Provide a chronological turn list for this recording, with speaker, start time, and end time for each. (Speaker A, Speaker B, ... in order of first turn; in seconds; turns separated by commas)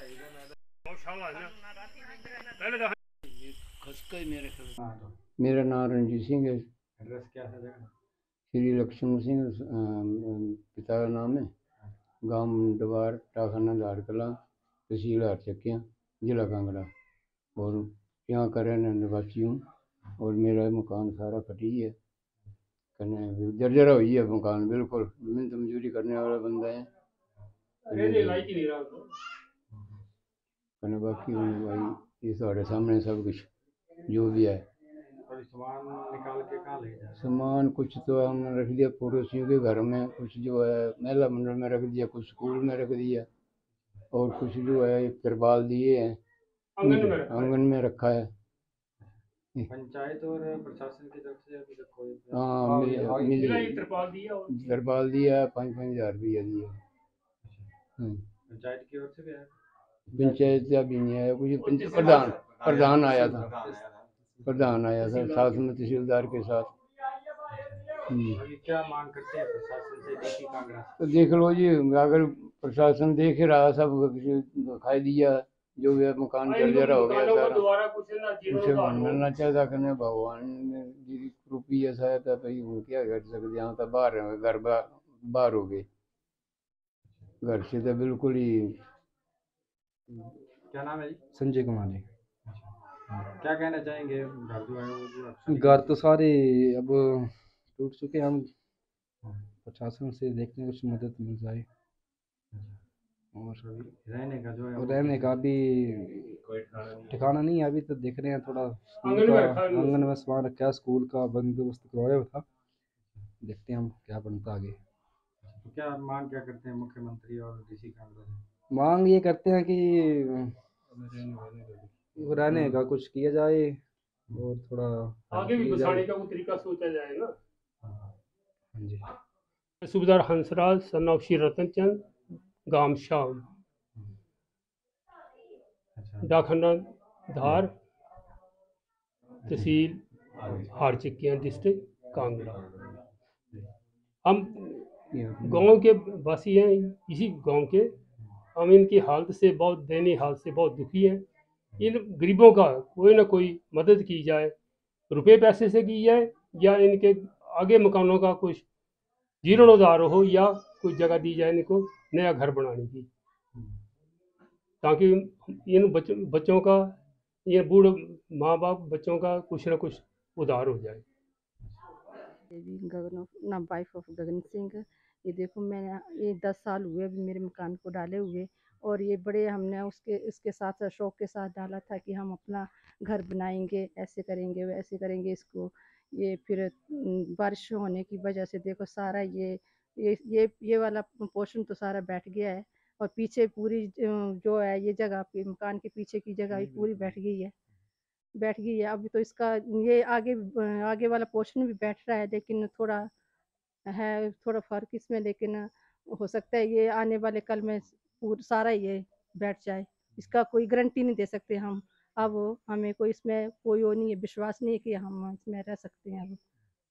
Speaker A: 0.9-1.5, Speaker A: 2.4-2.9, Speaker B: 3.2-4.8, Speaker C: 4.8-5.2, Speaker B: 5.4-6.7, Speaker C: 7.0-7.9, Speaker B: 8.5-11.5, Speaker B: 12.2-14.3, Speaker B: 14.9-16.9, Speaker B: 17.6-19.6, Speaker B: 20.2-21.9, Speaker B: 23.0-26.9, Speaker A: 27.9-29.1, Speaker B: 27.9-28.5, Speaker B: 30.8-33.5, Speaker B: 34.1-34.6, Speaker C: 35.3-37.3, Speaker B: 37.2-43.3, Speaker B: 44.1-46.2, Speaker A: 46.8-47.5, Speaker B: 46.8-48.3, Speaker C: 49.7-53.6, Speaker B: 52.3-53.8, Speaker A: 53.4-54.8, Speaker B: 54.5-56.7, Speaker C: 57.4-57.7, Speaker B: 58.0-58.2, Speaker C: 58.5-59.5, Speaker C: 60.1-60.6, Speaker B: 60.1-63.5, Speaker A: 61.6-62.4, Speaker C: 63.1-64.4, Speaker B: 64.4-66.7, Speaker A: 65.0-65.6, Speaker C: 67.5-67.8, Speaker B: 68.0-68.4, Speaker C: 68.3-71.0, Speaker B: 71.0-77.7, Speaker A: 76.5-79.2, Speaker B: 78.5-85.9, Speaker B: 87.4-88.8, Speaker C: 90.2-91.2, Speaker D: 91.3-92.1, Speaker C: 92.4-92.7, Speaker C: 93.2-96.0, Speaker D: 95.5-98.5, Speaker D: 99.6-101.7, Speaker C: 102.5-102.8, Speaker D: 103.3-103.8, Speaker C: 103.7-105.4, Speaker D: 104.8-112.5, Speaker A: 109.0-110.0, Speaker D: 113.4-114.8, Speaker C: 115.4-118.4, Speaker D: 118.7-120.6, Speaker A: 121.0-121.7, Speaker D: 122.1-126.1, Speaker A: 125.3-127.3, Speaker C: 127.8-128.1, Speaker D: 128.7-129.1, Speaker A: 129.8-132.0, Speaker A: 132.7-133.5, Speaker C: 136.0-136.3, Speaker A: 136.2-137.7, Speaker A: 139.5-142.7, Speaker C: 140.4-140.7, Speaker A: 144.2-147.9, Speaker B: 145.1-145.5, Speaker A: 148.5-151.2, Speaker A: 151.8-154.5, Speaker A: 155.1-158.6, Speaker A: 159.4-163.1, Speaker A: 164.8-166.9, Speaker A: 167.4-171.0, Speaker E: 172.5-197.5, Speaker E: 198.4-203.1, Speaker E: 203.9-216.4